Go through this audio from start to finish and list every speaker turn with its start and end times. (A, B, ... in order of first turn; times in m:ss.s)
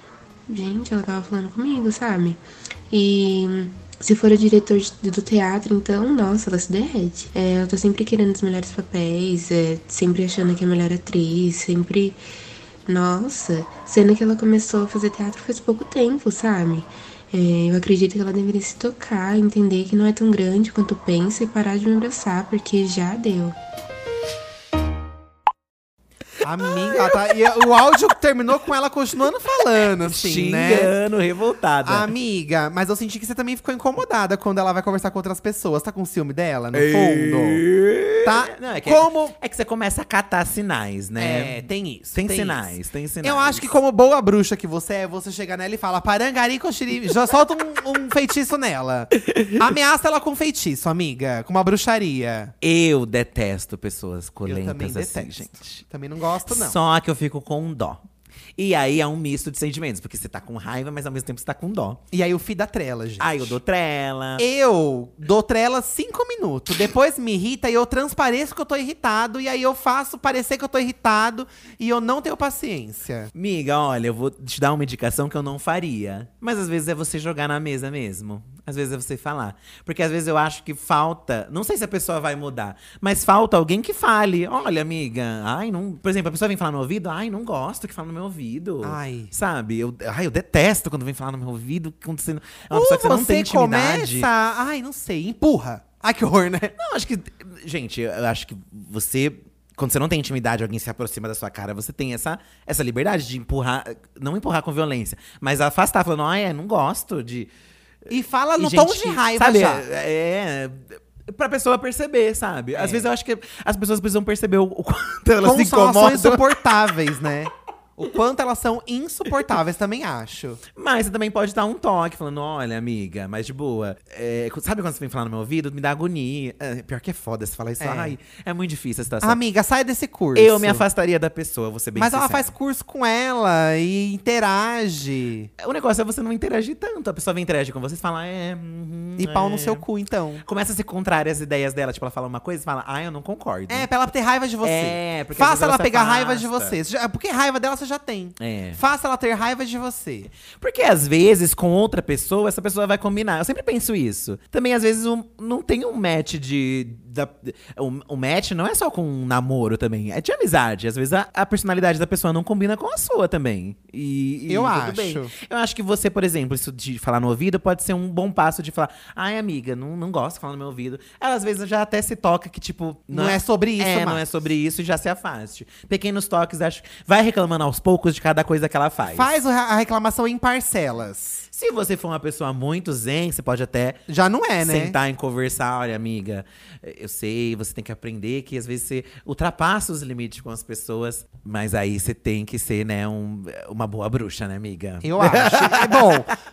0:00.5-0:12.2 A
0:12.9-0:23.6 A
0:26.4-0:30.9 B
0:30.1-0:32.1 C
0:31.8-0:37.6 B
0:36.7-0:43.7 C
0:38.2-0:39.4 B
0:41.2-0:52.5 B
0:52.6-0:55.8 C
0:54.5-0:56.8 B
0:56.5-0:58.0 C
0:58.6-1:02.0 C
1:02.1-1:03.6 B
1:03.2-1:04.4 C
1:04.4-1:13.3 B
1:13.3-1:34.3 C
1:28.8-1:29.3 B
1:32.7-1:36.8 B
1:36.8-1:47.5 C
1:48.1-1:49.9 B
1:48.6-1:56.6 C
1:52.7-1:53.1 B
1:55.4-2:00.6 B
2:00.7-2:09.4 C
2:07.8-2:08.2 B
2:09.2-2:10.8 B
2:10.4-2:12.5 C
2:12.0-2:15.5 B
2:15.6-2:19.8 C
2:19.2-2:20.4 B
2:20.4-2:23.9 C
2:23.7-2:30.3 B
2:24.6-2:26.8 C
2:28.4-2:28.8 C
2:30.5-2:59.3 C
2:44.5-2:45.3 B
2:53.1-2:54.2 B
2:59.1-3:01.5 B
3:01.5-3:04.0 C
3:04.1-3:05.0 B
3:04.6-3:16.3 C
3:15.0-3:16.3 B